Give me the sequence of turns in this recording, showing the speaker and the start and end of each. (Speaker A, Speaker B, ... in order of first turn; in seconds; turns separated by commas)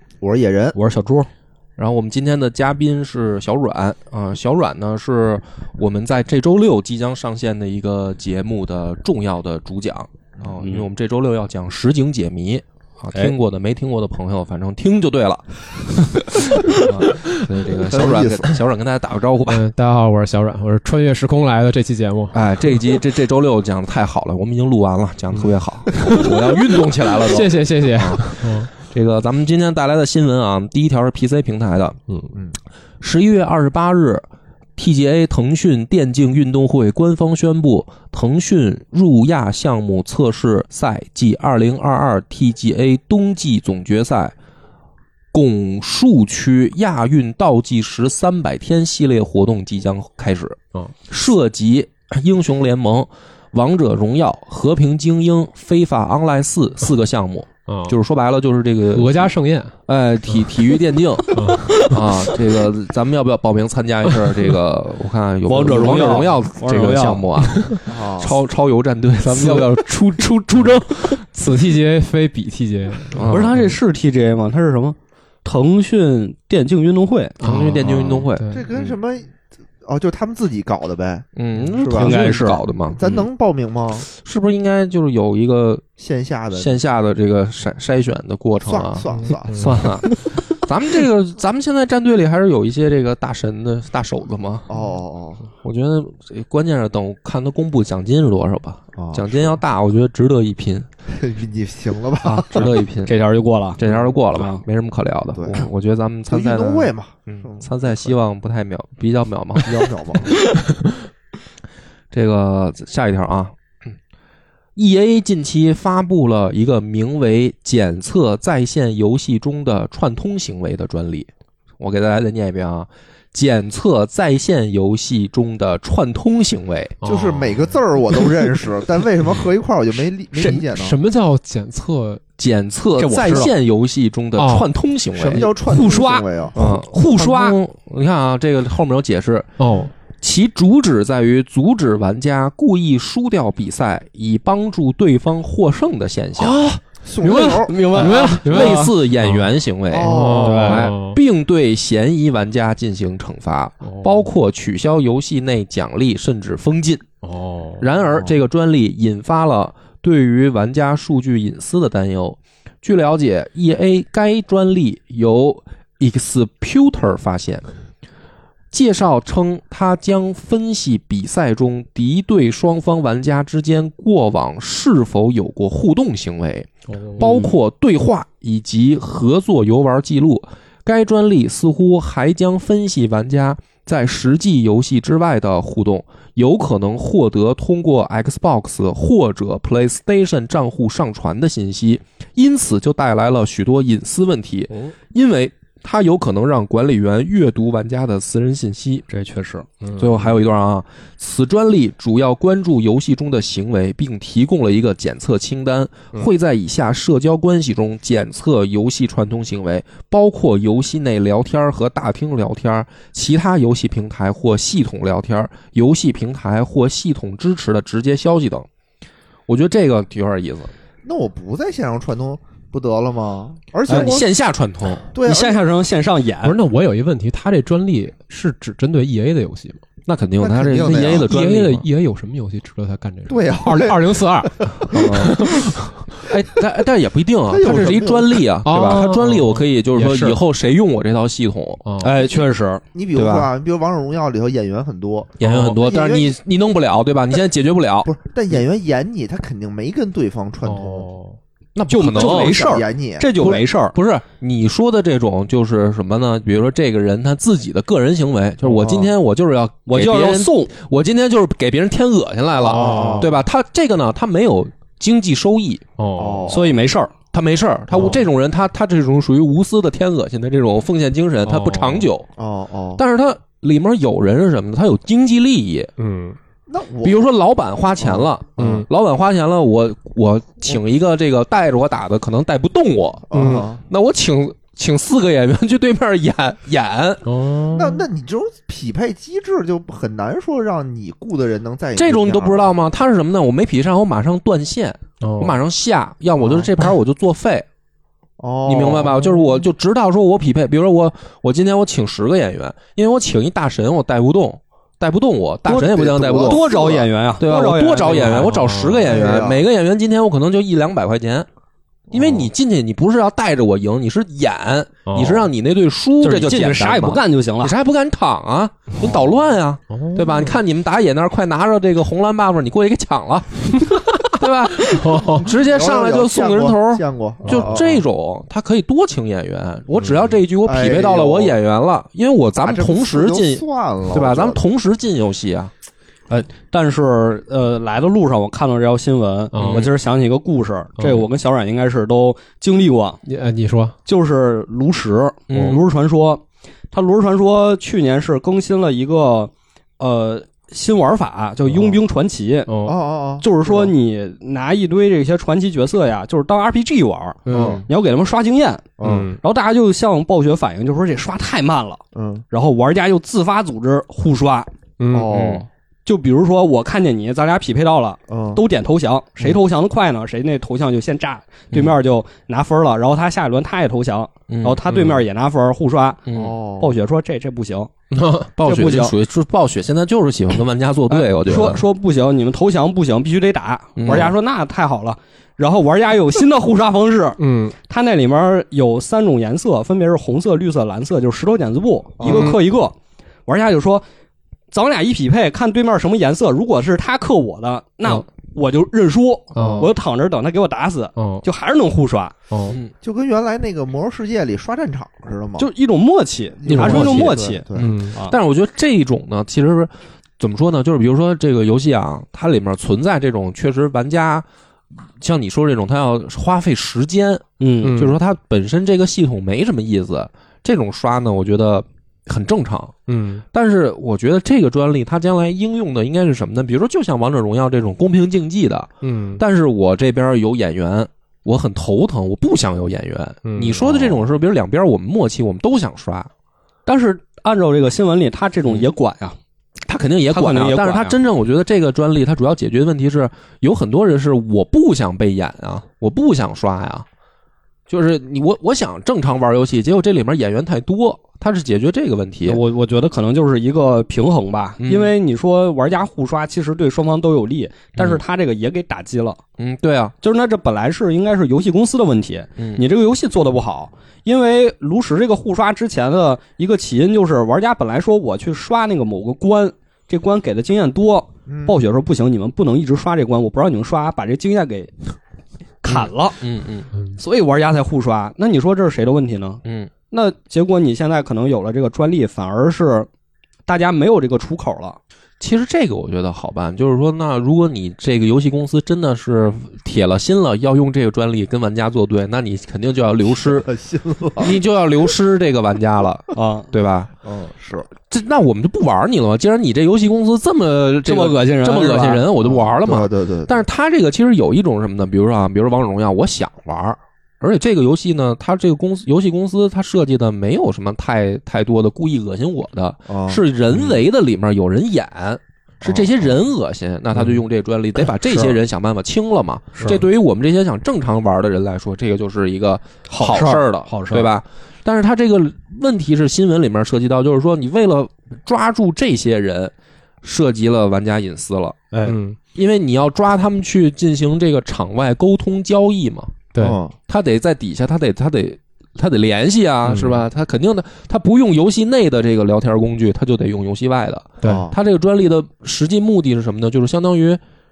Speaker A: 0.2-0.8, Speaker B: 0.8-1.3, Speaker C: 1.8-19.6, Speaker A: 17.7-18.6, Speaker D: 19.5-22.4, Speaker C: 22.3-32.0, Speaker D: 25.4-26.3, Speaker D: 27.0-28.7, Speaker C: 33.0-34.2, Speaker C: 34.8-44.3, Speaker C: 45.3-59.3, Speaker D: 57.7-58.0, Speaker D: 58.9-59.8, Speaker C: 59.9-71.3, Speaker D: 61.3-61.9, Speaker B: 65.5-67.3, Speaker D: 67.4-67.8, Speaker A: 67.9-68.4, Speaker D: 69.3-69.6, Speaker D: 71.3-73.7, Speaker C: 73.1-73.6, Speaker B: 73.2-77.4, Speaker D: 77.4-78.7, Speaker C: 77.4-79.0, Speaker A: 77.8-82.2, Speaker C: 81.4-83.1, Speaker B: 82.0-83.2, Speaker A: 82.9-84.1, Speaker C: 84.0-85.8, Speaker A: 86.0-86.8, Speaker C: 86.5-94.7, Speaker A: 88.6-90.0, Speaker D: 89.2-89.8, Speaker A: 94.7-95.5, Speaker C: 95.6-100.9, Speaker A: 99.0-99.6, Speaker A: 101.1-102.7, Speaker B: 102.2-104.6, Speaker C: 102.5-103.1, Speaker C: 103.8-110.5, Speaker A: 105.3-105.7, Speaker A: 106.3-108.1, Speaker A: 109.6-110.4, Speaker C: 112.1-114.0, Speaker C: 114.8-127.0, Speaker D: 127.0-127.8, Speaker A: 127.0-131.0, Speaker D: 130.3-132.2, Speaker C: 132.4-135.5, Speaker B: 133.0-133.5, Speaker D: 134.4-134.7, Speaker A: 135.1-136.6, Speaker B: 135.4-137.6, Speaker C: 136.6-139.5, Speaker D: 139.6-139.9, Speaker C: 140.2-146.6, Speaker D: 146.4-149.5, Speaker A: 147.0-148.1, Speaker B: 147.2-148.9, Speaker C: 148.0-157.1, Speaker A: 149.9-150.7, Speaker D: 150.0-151.2, Speaker B: 150.4-150.9, Speaker D: 153.8-154.3, Speaker D: 157.2-157.9, Speaker C: 157.8-167.7, Speaker C: 168.7-199.1, Speaker D: 176.9-177.2, Speaker B: 177.2-177.5, Speaker B: 199.1-199.7, Speaker D: 199.8-200.2, Speaker C: 200.0-218.7, Speaker C: 219.5-220.7, Speaker A: 221.0-224.3, Speaker B: 223.9-224.2, Speaker C: 223.9-225.1, Speaker A: 225.1-225.6, Speaker B: 225.2-226.6, Speaker D: 226.4-229.8, Speaker C: 230.1-231.9, Speaker A: 230.4-231.3, Speaker D: 230.9-235.9, Speaker A: 233.3-235.3, Speaker C: 234.9-241.8, Speaker A: 237.5-238.4, Speaker D: 238.7-240.4, Speaker D: 241.8-242.2, Speaker B: 242.0-242.8, Speaker A: 242.9-246.3, Speaker C: 243.1-243.5, Speaker C: 245.4-248.1, Speaker D: 245.4-245.8, Speaker A: 248.1-251.1, Speaker D: 250.6-251.4, Speaker C: 251.8-252.6, Speaker B: 251.9-254.0, Speaker A: 252.1-253.4, Speaker C: 253.3-265.8, Speaker D: 258.6-259.1, Speaker B: 259.9-260.7, Speaker A: 262.6-263.3, Speaker D: 262.7-263.3, Speaker D: 266.0-266.6, Speaker A: 266.2-266.8, Speaker B: 266.5-267.1, Speaker C: 267.3-272.3, Speaker D: 271.5-272.1, Speaker A: 272.4-273.0, Speaker C: 273.0-275.9, Speaker D: 276.0-276.4, Speaker A: 276.7-277.2, Speaker C: 277.0-287.3, Speaker A: 278.0-278.3, Speaker D: 278.6-278.9, Speaker A: 283.3-283.8, Speaker D: 283.3-283.7, Speaker D: 287.2-288.1, Speaker A: 287.7-292.7, Speaker C: 292.0-297.7, Speaker D: 295.2-295.6, Speaker A: 296.4-296.7, Speaker A: 298.4-299.4, Speaker C: 298.6-306.8, Speaker B: 305.7-308.5, Speaker A: 305.7-307.1, Speaker C: 307.4-311.5, Speaker D: 308.1-309.1, Speaker A: 309.0-309.6, Speaker C: 312.1-335.7, Speaker D: 315.1-315.5, Speaker B: 316.2-317.8, Speaker A: 319.0-319.4, Speaker D: 319.9-320.6, Speaker D: 323.8-324.3, Speaker D: 324.9-325.5, Speaker A: 324.9-328.0, Speaker D: 327.5-328.0, Speaker A: 330.6-331.6, Speaker A: 332.6-334.6, Speaker B: 336.3-343.2, Speaker D: 339.5-339.9, Speaker C: 339.6-339.9, Speaker D: 341.0-341.3, Speaker D: 343.3-344.0, Speaker B: 344.1-352.7, Speaker C: 345.5-345.8, Speaker D: 351.7-352.0, Speaker D: 352.7-353.0, Speaker A: 352.8-353.9, Speaker B: 353.4-364.7, Speaker D: 357.5-357.8, Speaker A: 357.5-357.8, Speaker C: 357.6-357.8, Speaker A: 359.0-359.3, Speaker D: 359.0-359.4, Speaker A: 362.1-362.4, Speaker D: 365.0-365.3, Speaker A: 365.1-365.7, Speaker C: 365.3-365.6, Speaker B: 366.1-376.2, Speaker A: 368.3-368.6, Speaker C: 371.7-372.0, Speaker C: 374.5-374.8, Speaker D: 374.9-375.2, Speaker C: 376.3-376.6, Speaker A: 376.3-377.0, Speaker B: 376.8-377.9, Speaker D: 378.1-378.5, Speaker C: 378.6-381.8, Speaker B: 378.6-379.1, Speaker B: 381.1-392.9, Speaker C: 384.0-384.4, Speaker D: 387.4-387.8, Speaker A: 392.2-392.6, Speaker D: 392.3-392.6, Speaker B: 393.5-394.0, Speaker B: 394.7-402.3, Speaker D: 399.6-399.9, Speaker D: 401.2-401.4, Speaker D: 402.5-402.8, Speaker A: 403.0-405.7, Speaker B: 405.6-408.4, Speaker A: 406.6-407.9, Speaker C: 406.7-414.5, Speaker D: 407.8-408.2, Speaker C: 415.2-423.0, Speaker B: 417.6-418.1, Speaker D: 417.8-418.2, Speaker D: 423.1-423.4, Speaker C: 423.5-436.3, Speaker D: 429.0-429.4, Speaker D: 433.4-433.9, Speaker B: 436.9-439.4, Speaker C: 439.9-447.1, Speaker B: 440.3-441.2, Speaker C: 447.9-452.6, Speaker B: 452.5-459.4, Speaker C: 454.8-455.1, Speaker C: 458.0-458.2, Speaker C: 459.6-460.1, Speaker B: 460.2-475.0, Speaker C: 462.6-462.9, Speaker A: 471.5-471.8, Speaker B: 475.8-476.5, Speaker C: 475.9-476.9, Speaker B: 477.2-483.1, Speaker C: 479.6-479.9, Speaker B: 483.7-485.0, Speaker C: 485.4-493.7, Speaker A: 493.3-494.6, Speaker C: 494.4-497.1, Speaker B: 496.4-496.7, Speaker A: 497.2-497.9, Speaker C: 498.0-531.9, Speaker B: 501.1-502.3, Speaker A: 502.4-503.6, Speaker A: 513.1-513.4, Speaker A: 515.8-516.3, Speaker B: 518.2-518.6, Speaker B: 523.1-524.3, Speaker B: 531.9-532.2, Speaker D: 532.0-532.4, Speaker C: 532.5-536.5, Speaker A: 536.6-537.0, Speaker C: 537.1-547.4, Speaker D: 539.9-540.2, Speaker D: 544.4-544.7, Speaker A: 544.4-544.8